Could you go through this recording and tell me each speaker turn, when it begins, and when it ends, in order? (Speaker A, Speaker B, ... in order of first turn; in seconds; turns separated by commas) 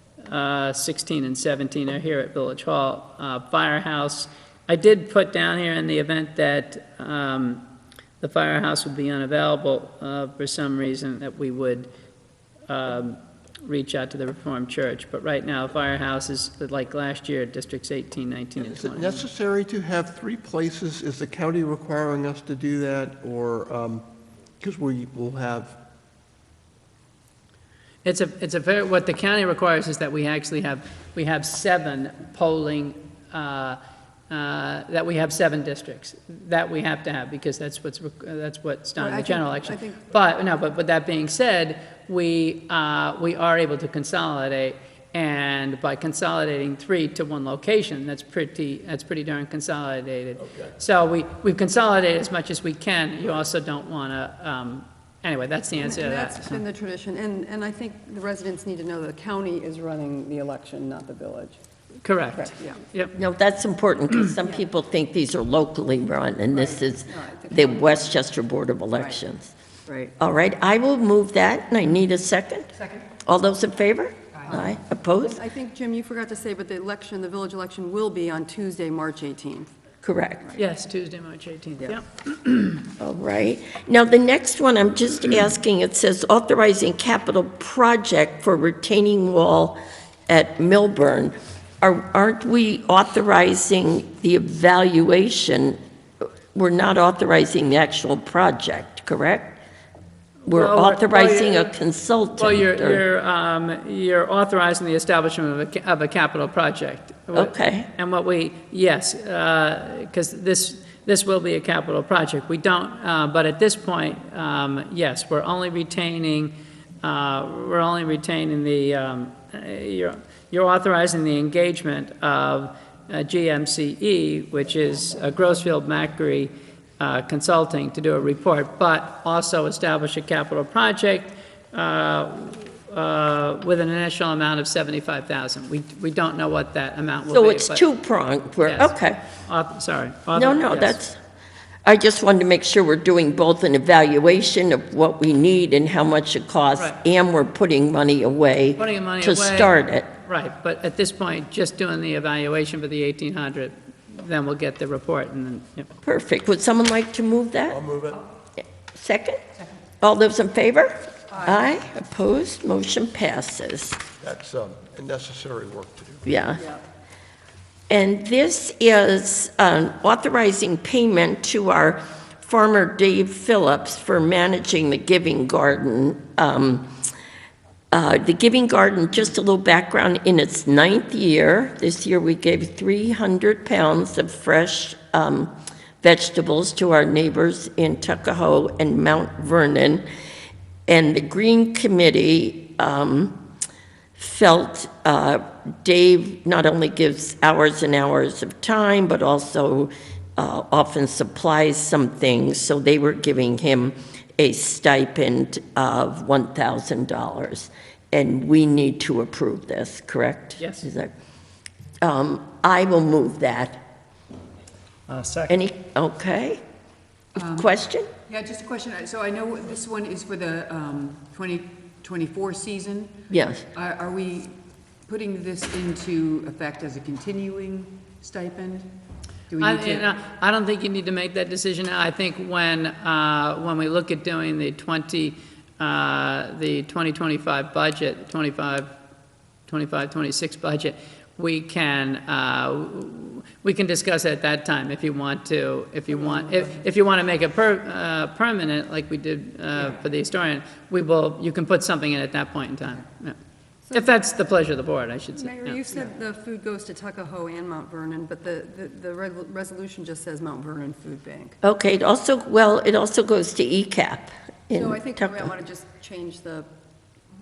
Speaker A: 0.2-7.6, Speaker A: 8.2-11.9, Speaker A: 12.7-19.2, Speaker B: 18.6-24.1, Speaker B: 24.6-25.8, Speaker A: 28.0-56.6, Speaker C: 39.0-40.0, Speaker C: 55.8-61.6, Speaker A: 62.0-63.1, Speaker C: 62.4-62.8, Speaker D: 63.1-69.5, Speaker C: 66.5-68.2, Speaker C: 69.9-70.1, Speaker D: 70.2-72.7, Speaker E: 72.8-73.0, Speaker D: 73.3-75.4, Speaker E: 74.3-74.6, Speaker C: 75.2-79.7, Speaker D: 80.0-80.5, Speaker A: 80.6-82.8, Speaker D: 83.0-95.8, Speaker D: 96.5-99.6, Speaker A: 100.5-101.7, Speaker D: 100.5-103.0, Speaker A: 102.4-116.5, Speaker D: 107.3-107.9, Speaker A: 117.0-137.8, Speaker D: 137.3-139.2, Speaker A: 138.6-141.0, Speaker D: 140.3-141.2, Speaker D: 141.8-150.1, Speaker A: 148.8-155.9, Speaker D: 156.0-157.8, Speaker B: 157.7-158.2, Speaker D: 158.9-159.4, Speaker D: 160.0-164.1, Speaker B: 164.2-166.2, Speaker D: 166.2-166.7, Speaker D: 167.9-176.9, Speaker D: 177.9-190.1, Speaker D: 190.9-193.4, Speaker D: 194.2-211.1, Speaker A: 210.6-210.9, Speaker D: 212.0-213.8, Speaker A: 215.1-215.6, Speaker D: 215.5-216.6, Speaker E: 217.4-217.7, Speaker D: 217.4-218.1, Speaker E: 218.3-224.6, Speaker D: 223.3-223.7, Speaker E: 225.1-228.9, Speaker E: 229.5-230.1, Speaker A: 229.6-238.9, Speaker A: 239.7-253.4, Speaker C: 253.9-254.1, Speaker A: 253.9-255.8, Speaker C: 255.3-261.6, Speaker D: 261.6-265.5, Speaker C: 264.7-266.7